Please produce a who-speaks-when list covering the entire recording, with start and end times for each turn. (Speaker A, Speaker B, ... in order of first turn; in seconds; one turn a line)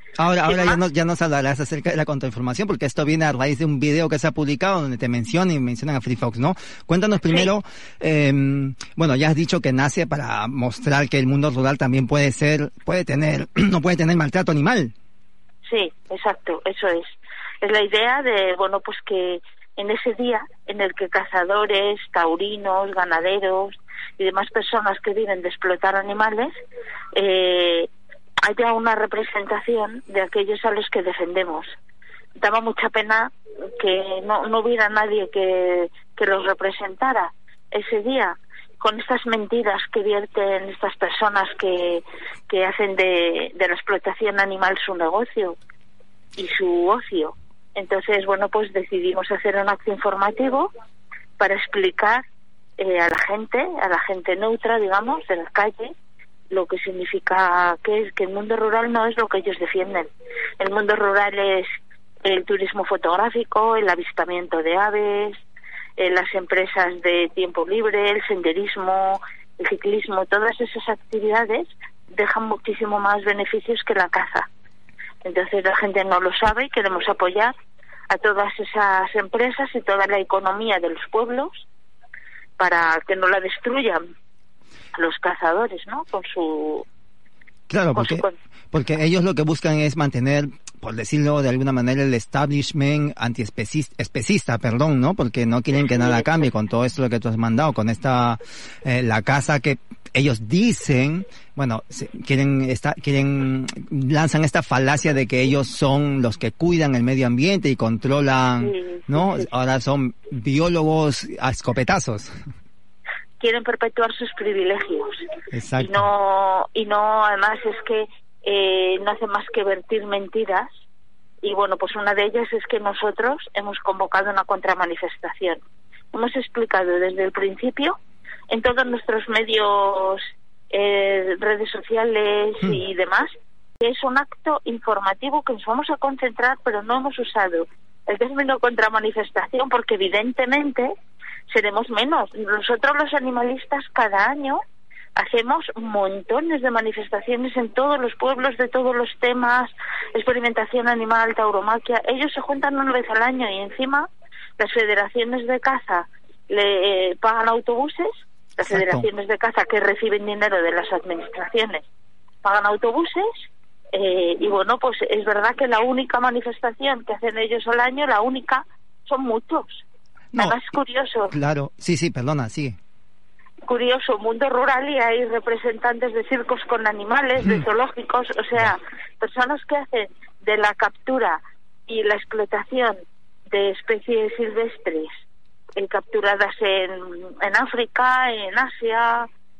Speaker A: 0.2-14.9
Speaker B: 0.5-0.8
Speaker B: 15.7-26.5
Speaker B: 27.1-27.9
Speaker B: 28.5-31.7
Speaker B: 32.4-45.6
Speaker B: 46.4-50.7
Speaker B: 51.4-52.2
Speaker B: 52.8-55.9
Speaker B: 56.5-61.7
Speaker B: 62.2-65.4
Speaker B: 66.0-74.5
Speaker B: 75.2-77.5
Speaker B: 78.1-81.7
Speaker B: 82.6-84.0
Speaker B: 85.0-86.9
Speaker A: 87.7-112.4
Speaker B: 88.0-88.3
Speaker B: 95.9-96.5
Speaker B: 108.6-109.5
Speaker B: 113.4-115.2
Speaker A: 115.5-116.1
Speaker B: 115.8-120.7
Speaker B: 121.4-125.6
Speaker B: 126.1-128.0
Speaker B: 128.5-140.9
Speaker B: 141.5-144.6
Speaker B: 145.2-161.8
Speaker A: 158.6-159.1
Speaker B: 162.4-163.3
Speaker B: 163.9-169.8
Speaker A: 170.3-170.6
Speaker B: 170.4-171.3
Speaker A: 171.3-172.8
Speaker B: 173.7-185.1
Speaker B: 185.8-189.3